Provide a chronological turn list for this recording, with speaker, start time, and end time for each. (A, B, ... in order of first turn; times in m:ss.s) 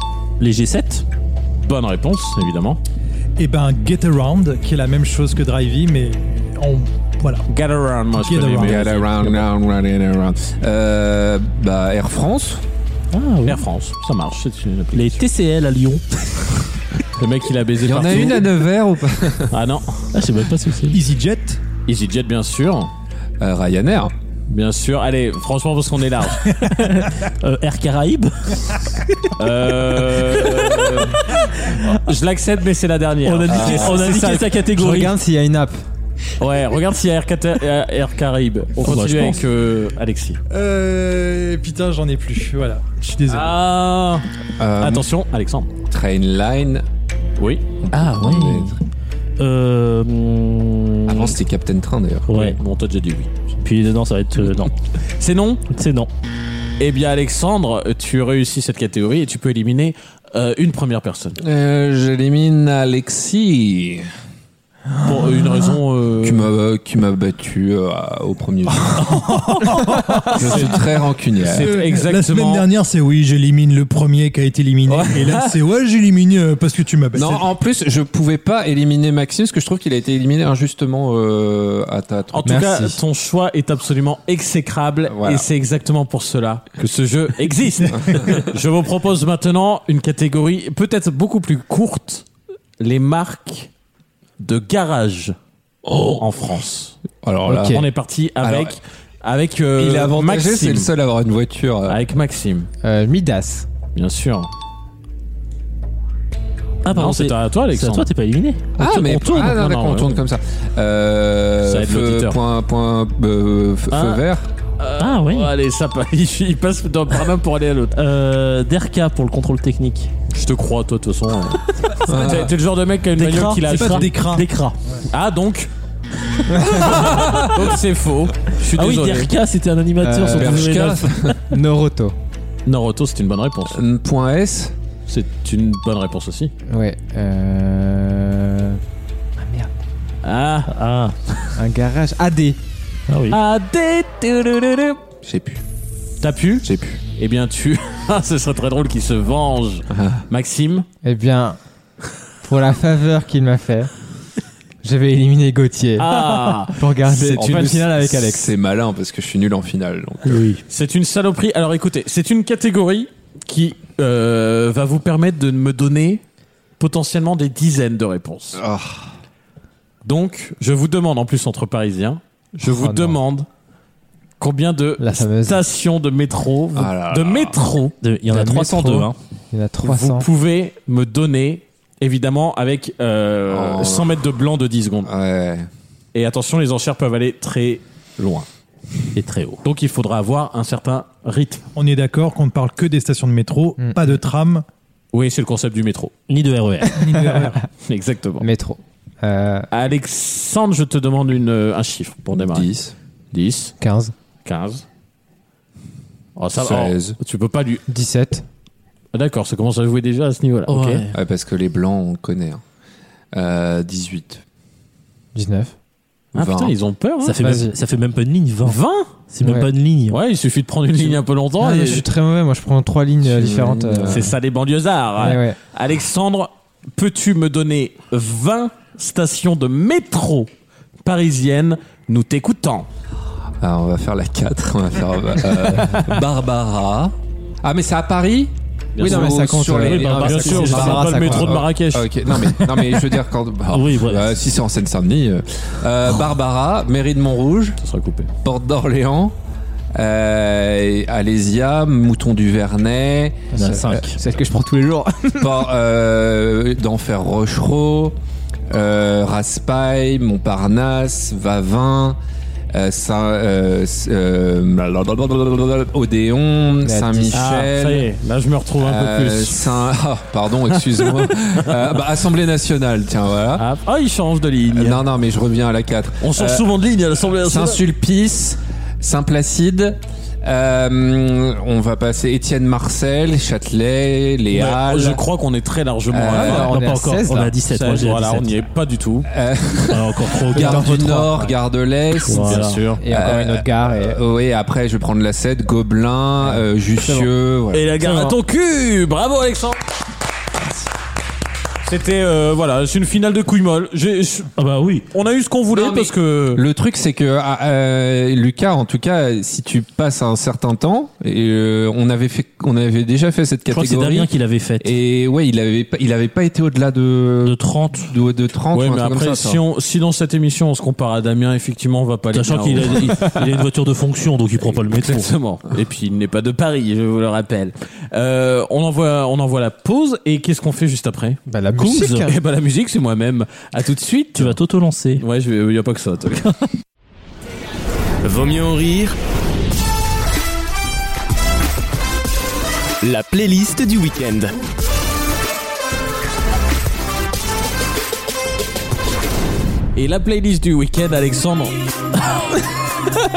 0:00.4-0:01.0 A
0:01.6-0:02.8 B
0:03.4-0:07.4 C
0:07.5-0:09.5 B
0:08.1-0:08.8 C
0:08.6-0:12.6 D
0:13.1-0:13.6 A
0:13.4-0:15.2 B
0:14.9-0:16.5 A
0:17.2-0:18.5 B
0:17.8-0:19.5 D
0:19.5-0:20.1 B
0:20.1-0:21.0 A
0:20.9-0:21.6 C
0:21.9-0:22.9 B
0:23.4-0:24.1 D
0:24.5-0:26.6 B
0:26.6-0:29.3 A
0:29.4-0:31.3 B
0:30.4-0:31.9 A
0:31.9-0:34.5 B
0:33.2-0:35.1 A
0:33.5-0:34.1 D
0:34.7-0:35.8 E
0:36.4-0:40.4 B
0:38.8-0:39.4 A
0:40.5-0:43.6 C
0:43.3-0:44.2 B
0:44.6-0:45.1 D
0:44.8-0:45.7 B
0:45.9-0:46.8 D
0:47.4-0:47.6 B
0:47.8-0:48.8 D
0:47.9-0:48.8 A
0:49.4-0:51.4 A
0:51.1-0:52.2 D
0:52.3-0:52.6 A
0:52.3-0:53.3 B
0:53.6-0:54.7 A
0:55.2-0:55.6 B
0:55.7-0:56.1 A
0:56.8-1:01.4 B
1:01.4-1:04.1 D
1:05.0-1:05.7 C
1:05.0-1:06.5 B
1:06.2-1:09.4 D
1:08.9-1:10.8 C
1:10.3-1:11.8 D
1:10.4-1:10.8 B
1:11.4-1:12.6 B
1:11.5-1:17.4 C
1:14.9-1:15.5 D
1:17.1-1:22.6 D
1:22.3-1:32.2 B
1:22.4-1:23.0 E
1:25.1-1:25.5 D
1:27.9-1:28.3 D
1:32.8-1:33.7 B
1:34.4-1:35.3 B
1:35.8-1:36.2 D
1:36.0-1:37.0 B
1:37.2-1:37.8 D
1:37.5-1:37.8 E
1:37.7-1:40.9 B
1:38.4-1:38.8 D
1:39.8-1:42.0 D
1:41.8-1:42.7 B
1:42.8-1:43.7 E
1:43.9-1:44.5 B
1:46.8-1:49.5 A
1:46.9-1:48.1 B
1:48.8-1:54.5 D
1:48.8-1:50.2 B
1:51.6-1:52.4 B
1:53.9-1:54.2 B
1:54.8-1:58.0 B
1:55.0-1:55.5 A
1:57.9-2:00.1 A
2:00.3-2:04.1 B
2:02.0-2:02.5 D
2:03.2-2:04.8 A
2:03.7-2:05.0 C
2:05.1-2:05.7 B
2:06.6-2:06.8 E
2:06.7-2:09.3 B
2:06.8-2:07.6 D
2:08.8-2:11.4 A
2:10.0-2:10.7 E
2:10.3-2:11.4 D
2:11.5-2:12.1 E
2:12.6-2:13.8 B
2:13.7-2:14.7 D
2:15.1-2:16.5 B
2:16.7-2:18.8 E
2:19.4-2:19.7 E
2:20.2-2:20.7 B
2:20.7-2:21.2 A
2:21.6-2:22.6 E
2:23.1-2:23.4 A
2:23.3-2:25.0 B
2:25.2-2:25.6 D
2:26.2-2:30.8 B
2:26.6-2:27.0 D
2:29.9-2:30.2 D
2:31.0-2:31.6 E
2:32.4-2:33.9 E
2:34.8-2:38.5 E
2:36.0-2:37.9 B
2:37.4-2:40.4 D
2:40.3-2:40.6 A
2:40.7-2:46.2 B
2:46.8-2:48.6 B
2:48.5-2:49.1 D
2:50.0-2:53.4 B
2:52.6-2:53.2 E
2:54.4-2:57.9 B
2:55.0-2:55.6 E
2:56.7-2:57.6 D
2:58.0-2:59.2 A
2:58.3-3:00.2 E
2:59.8-3:05.1 B
3:03.5-3:04.2 D
3:05.0-3:05.7 D
3:06.1-3:08.4 B
3:09.1-3:09.6 A
3:09.6-3:11.6 B
3:11.8-3:14.6 C
3:15.1-3:16.1 B
3:16.3-3:17.1 A
3:17.0-3:17.6 C
3:17.8-3:18.5 B
3:18.4-3:19.7 E
3:19.7-3:22.7 B
3:22.3-3:22.9 D
3:23.3-3:23.7 B
3:23.8-3:24.1 E
3:24.4-3:24.8 B
3:26.4-3:27.8 B
3:26.6-3:27.2 D
3:27.9-3:28.4 E
3:29.1-3:31.0 B
3:30.7-3:31.1 A
3:31.1-3:32.6 D
3:33.3-3:34.4 D
3:35.3-3:35.7 E
3:36.3-3:36.7 D
3:36.3-3:37.4 B
3:37.2-3:38.8 A
3:37.4-3:37.7 E
3:38.6-3:39.1 B
3:39.3-3:40.2 A
3:39.4-3:39.7 E
3:40.1-3:42.0 B
3:41.6-3:44.3 E
3:43.2-3:44.3 D
3:44.1-3:50.5 B
3:45.2-3:45.6 E
3:51.0-3:52.9 B
3:53.6-4:07.8 D
3:58.9-4:02.1 B
3:59.0-4:01.6 E
4:00.4-4:00.9 A
4:03.7-4:04.3 A
4:07.8-4:08.3 B
4:08.4-4:09.3 D
4:09.9-4:13.5 D
4:13.5-4:15.6 E
4:13.5-4:14.2 A
4:15.4-4:18.1 D
4:18.7-4:22.2 D
4:22.7-4:28.1 D
4:26.8-4:27.4 E
4:27.3-4:29.7 B
4:28.8-4:33.6 D
4:30.7-4:31.9 B
4:33.6-4:35.0 B
4:34.7-4:36.6 D
4:36.2-4:37.8 B
4:37.4-4:45.2 D
4:44.5-4:46.7 B
4:46.1-4:46.7 D
4:46.3-4:47.5 E
4:46.6-4:48.6 A
4:47.5-4:49.3 B
4:49.3-4:57.9 D
4:49.9-4:51.3 A
4:50.6-4:51.5 E
4:52.2-4:52.8 A
4:52.4-4:53.0 B
4:53.0-4:54.2 E
4:57.7-4:59.8 B
4:58.0-4:58.4 A
5:01.8-5:04.5 B
5:04.6-5:05.0 A
5:05.1-5:06.6 B
5:05.7-5:19.6 D
5:13.7-5:14.9 A
5:17.4-5:18.1 A
5:18.7-5:23.4 B
5:22.3-5:25.3 A
5:24.8-5:31.4 B
5:31.5-5:32.3 E
5:31.8-5:32.3 A
5:32.2-5:34.6 B
5:34.4-5:35.2 A
5:35.2-5:36.5 B
5:38.2-5:39.1 F
5:43.0-5:44.5 F
5:49.9-5:51.7 B